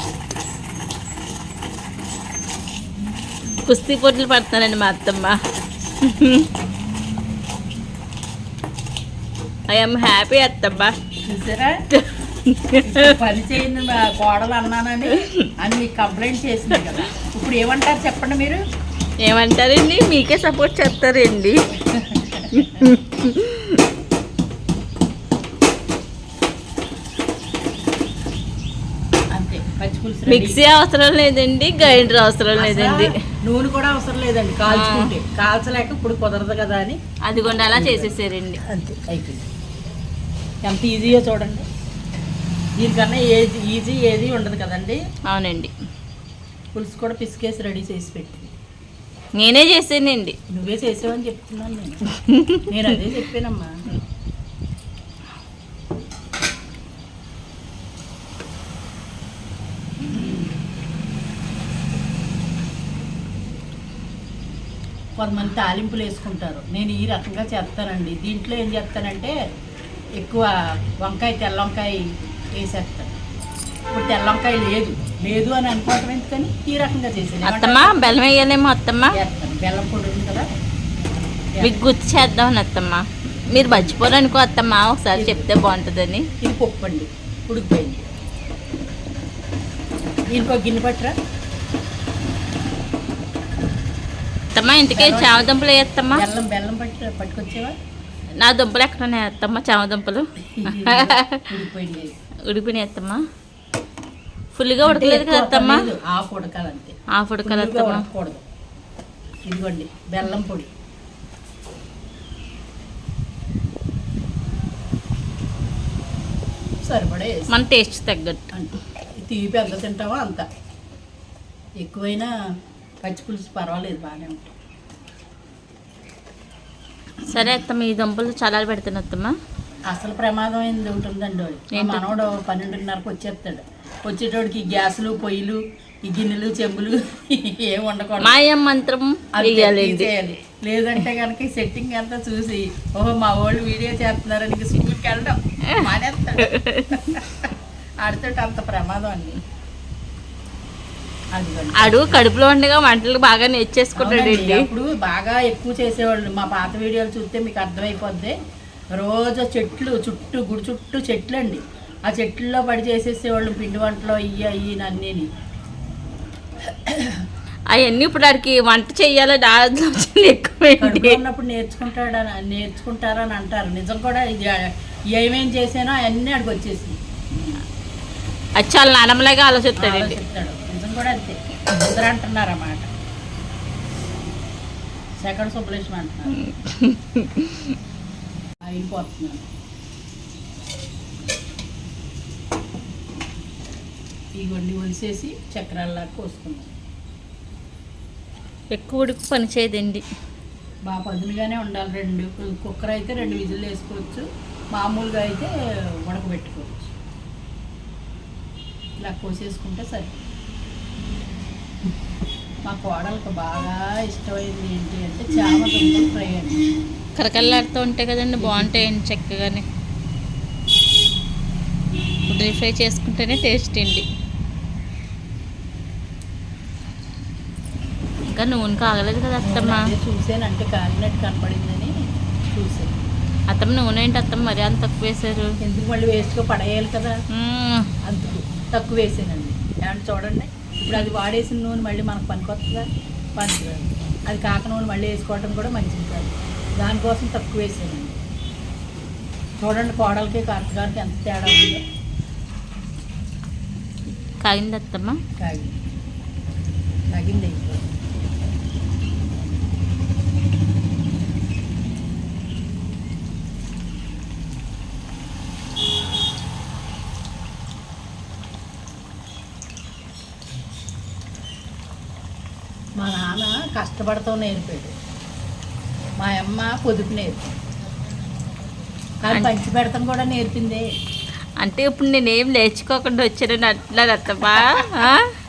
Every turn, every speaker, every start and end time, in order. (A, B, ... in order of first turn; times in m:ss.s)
0:03.6-0:05.4 A
0:06.0-0:06.5 A
0:09.7-0:10.9 A
0:11.2-0:11.8 B
0:11.9-0:13.1 A
0:12.8-0:18.6 B
0:15.1-0:15.5 A
0:19.2-0:21.6 A
0:21.9-0:22.9 B
0:22.5-0:23.8 A
0:29.3-0:30.6 B
0:30.3-0:33.1 A
0:31.8-0:37.0 B
0:34.7-0:35.1 A
0:37.2-0:38.6 A
0:37.7-0:39.5 B
0:40.6-0:41.6 B
0:42.8-0:45.0 B
0:45.3-0:45.7 A
0:46.7-0:48.5 B
0:49.4-0:50.4 A
0:50.5-0:52.1 B
0:52.3-0:52.7 A
0:52.6-0:53.7 B
1:00.1-1:00.5 B
1:05.2-1:09.3 B
1:10.2-1:10.5 B
1:11.0-1:12.0 B
1:12.6-1:13.2 B
1:13.9-1:17.9 B
1:17.4-1:19.1 A
1:19.1-1:20.4 B
1:21.1-1:21.8 B
1:21.6-1:26.3 A
1:23.5-1:24.0 B
1:25.1-1:25.5 B
1:26.4-1:28.1 B
1:30.3-1:31.1 B
1:34.6-1:36.2 A
1:34.9-1:35.6 B
1:36.1-1:37.7 B
1:38.4-1:41.4 A
1:40.5-1:42.2 B
1:42.5-1:43.2 A
1:44.5-1:45.9 A
1:44.8-1:48.4 B
1:47.2-1:48.0 A
1:49.4-1:50.7 B
1:56.8-1:57.5 B
1:57.5-1:58.4 A
1:58.5-2:00.4 B
2:01.8-2:02.3 B
2:03.0-2:04.5 B
2:07.2-2:07.6 B
2:07.3-2:09.3 A
2:09.9-2:18.4 B
2:11.7-2:12.2 A
2:18.2-2:20.1 A
2:19.3-2:27.5 B
2:26.4-2:27.1 A
2:28.0-2:29.4 B
2:31.3-2:32.2 B
2:31.8-2:34.7 A
2:34.0-2:38.3 B
2:39.0-2:45.3 B
2:46.9-2:47.2 B
2:47.7-2:51.2 A
2:50.8-2:57.6 B
2:58.6-3:00.2 A
2:59.8-3:02.9 B
3:05.2-3:06.4 B
3:06.4-3:07.7 A
3:08.7-3:09.4 B
3:14.4-3:16.7 B
3:18.7-3:20.0 A
3:20.8-3:25.5 B
3:26.0-3:26.9 B
3:29.0-3:30.1 B
3:32.6-3:36.6 B
3:37.2-3:39.6 A
3:38.4-3:38.9 B
3:42.3-3:44.0 A
3:48.3-3:49.9 A
3:49.4-3:51.9 B
3:52.5-3:52.9 B
3:53.5-3:55.6 A
3:55.6-3:57.1 B
3:57.3-3:57.9 A
3:58.0-4:02.8 B
4:03.4-4:08.2 B
4:09.6-4:11.8 B
4:14.4-4:15.2 A
4:15.4-4:15.8 B
4:17.1-4:17.8 B
4:33.0-4:34.9 B
4:36.2-4:37.6 B
4:39.2-4:40.9 B
4:41.6-4:45.3 A
4:44.4-4:45.0 B